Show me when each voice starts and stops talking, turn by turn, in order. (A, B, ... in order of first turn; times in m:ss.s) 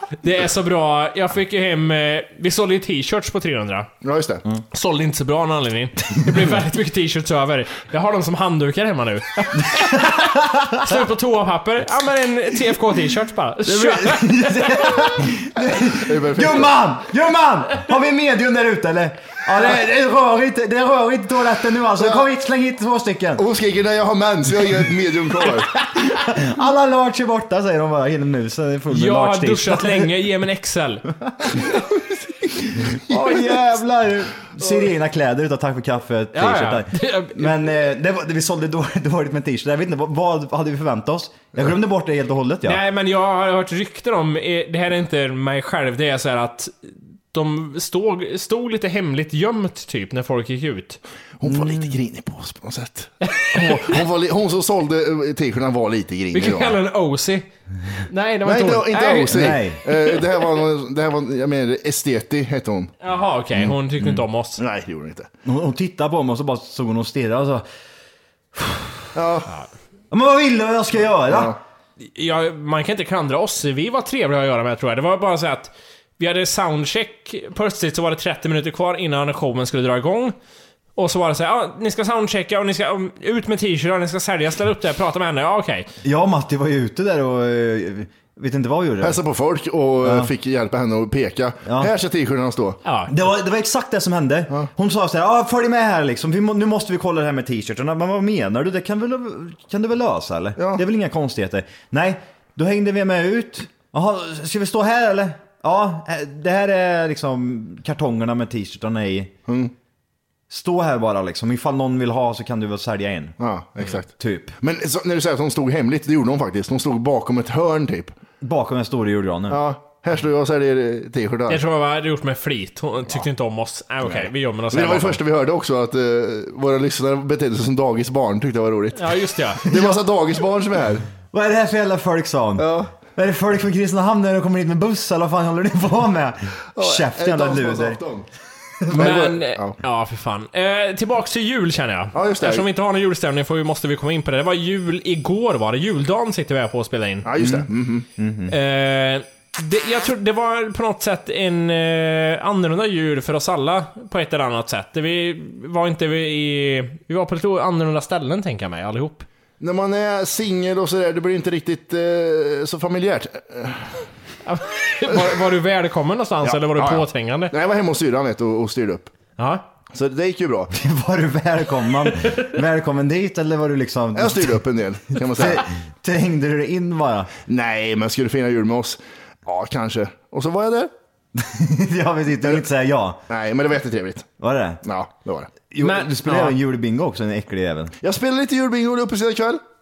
0:00.2-0:03.9 A
0:04.0-0:04.4 B
0:04.7-0:14.9 A
0:09.6-0:10.9 C
0:13.7-0:23.4 C
0:15.8-0:16.8 B
0:22.0-0:22.2 B
0:23.4-0:25.8 B
0:26.0-0:30.1 C
0:28.9-0:31.0 A
0:32.8-0:42.8 C
0:36.3-0:37.5 A
0:42.6-0:51.0 A
0:51.4-0:56.8 B
0:51.4-0:51.9 C
0:53.3-0:53.9 A
0:56.3-0:57.5 A
0:58.1-0:59.5 A
0:58.4-1:02.9 B
0:59.3-0:59.8 C
1:00.2-1:00.4 A
1:03.0-1:04.6 A
1:04.6-1:05.3 B
1:05.4-1:07.6 C
1:08.6-1:09.0 C
1:09.2-1:09.5 B
1:10.1-1:11.6 C
1:11.3-1:11.6 B
1:12.0-1:20.4 A
1:21.0-1:25.9 A
1:26.0-1:29.2 C
1:29.0-1:32.8 B
1:30.0-1:30.3 C
1:31.6-1:31.9 C
1:32.8-1:33.1 A
1:33.1-1:49.3 C
1:40.6-1:40.8 B
1:49.5-1:49.7 B
1:50.5-1:53.4 C
1:53.4-1:58.2 B
1:54.2-1:54.5 C
1:58.4-1:59.6 C
1:59.5-2:01.6 B
2:01.5-2:05.2 A
2:04.0-2:11.1 B
2:09.0-2:09.7 A
2:11.3-2:18.0 C
2:12.6-2:12.9 B
2:16.8-2:18.3 B
2:18.9-2:19.8 B
2:19.0-2:27.3 A
2:22.2-2:22.7 B
2:27.2-2:28.1 B
2:27.4-2:27.7 C
2:28.2-2:28.6 C
2:28.5-2:39.3 A
2:39.6-2:44.0 B
2:44.4-2:47.5 A
2:46.4-2:49.1 B
2:49.4-2:49.6 A
2:49.9-2:50.7 B
2:50.7-2:54.6 C
2:54.2-2:55.6 B
2:55.3-2:57.3 C
2:57.5-3:00.9 B
3:01.4-3:03.2 C
3:03.3-3:04.3 B
3:04.4-3:04.8 C
3:04.8-3:05.5 B
3:05.7-3:08.0 C
3:05.8-3:06.6 A
3:08.0-3:09.6 B